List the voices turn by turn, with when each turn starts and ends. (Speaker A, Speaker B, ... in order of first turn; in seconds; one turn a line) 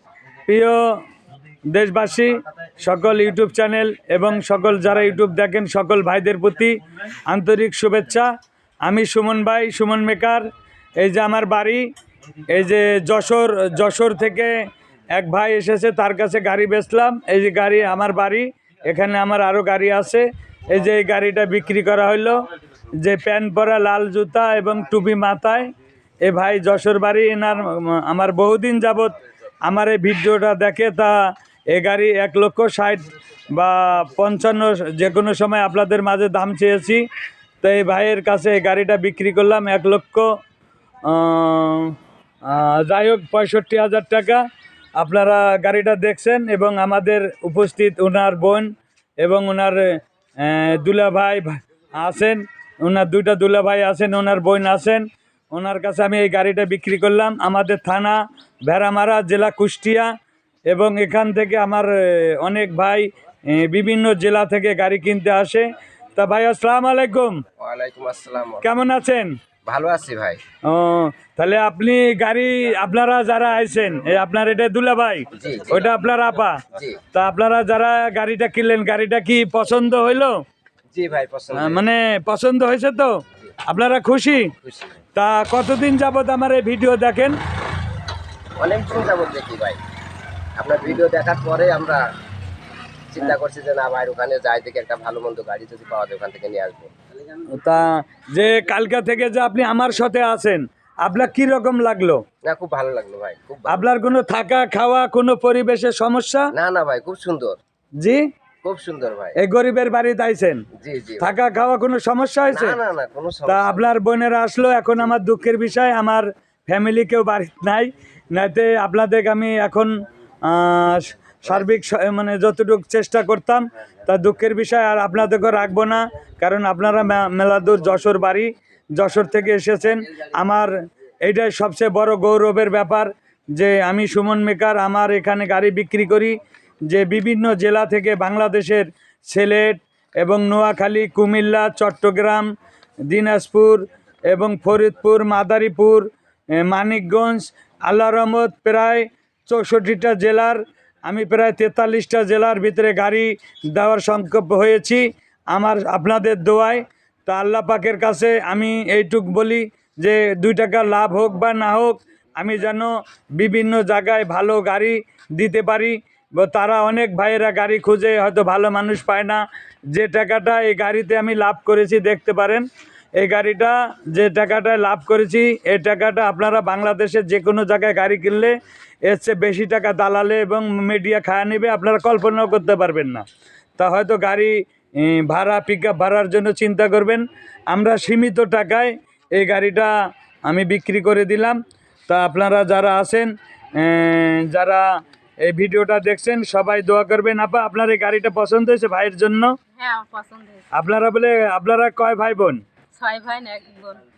Speaker A: 0.5-1.0
Speaker A: 1.7-8.3
Speaker A: 8.8-10.4
Speaker A: 11.0-11.9
Speaker A: 12.5-22.5
Speaker A: 23.0-25.7
Speaker A: 26.2-31.1
Speaker A: 31.7-37.0
Speaker A: 37.6-40.3
Speaker A: 41.0-44.5
Speaker A: 45.0-60.1
Speaker A: 60.7-67.4
Speaker B: 67.6-68.7
Speaker A: 68.6-69.3
Speaker B: 69.7-70.4
Speaker A: 70.7-80.4
Speaker B: 75.3-75.9
Speaker B: 76.7-77.0
Speaker B: 80.9-81.8
Speaker A: 81.5-84.5
Speaker B: 84.6-85.0
Speaker A: 85.2-87.4
Speaker B: 88.6-89.8
Speaker B: 90.6-92.0
Speaker B: 93.1-96.9
Speaker A: 97.5-102.2
Speaker B: 102.4-103.9
Speaker A: 103.7-106.5
Speaker B: 106.5-107.6
Speaker A: 108.0-108.2
Speaker B: 108.6-109.4
Speaker A: 109.4-110.7
Speaker B: 110.8-111.3
Speaker A: 111.2-112.8
Speaker B: 112.5-113.9
Speaker A: 113.5-119.9
Speaker A: 120.5-130.7
Speaker A: 131.2-136.4
Speaker A: 136.9-142.5
Speaker A: 143.1-172.7
Speaker A: 173.2-178.6
Speaker A: 179.1-183.2
Speaker A: 183.8-189.9
Speaker A: 190.5-194.9
Speaker A: 195.4-199.6
Speaker C: 199.8-200.7
Speaker A: 200.7-202.6
Speaker C: 203.0-204.0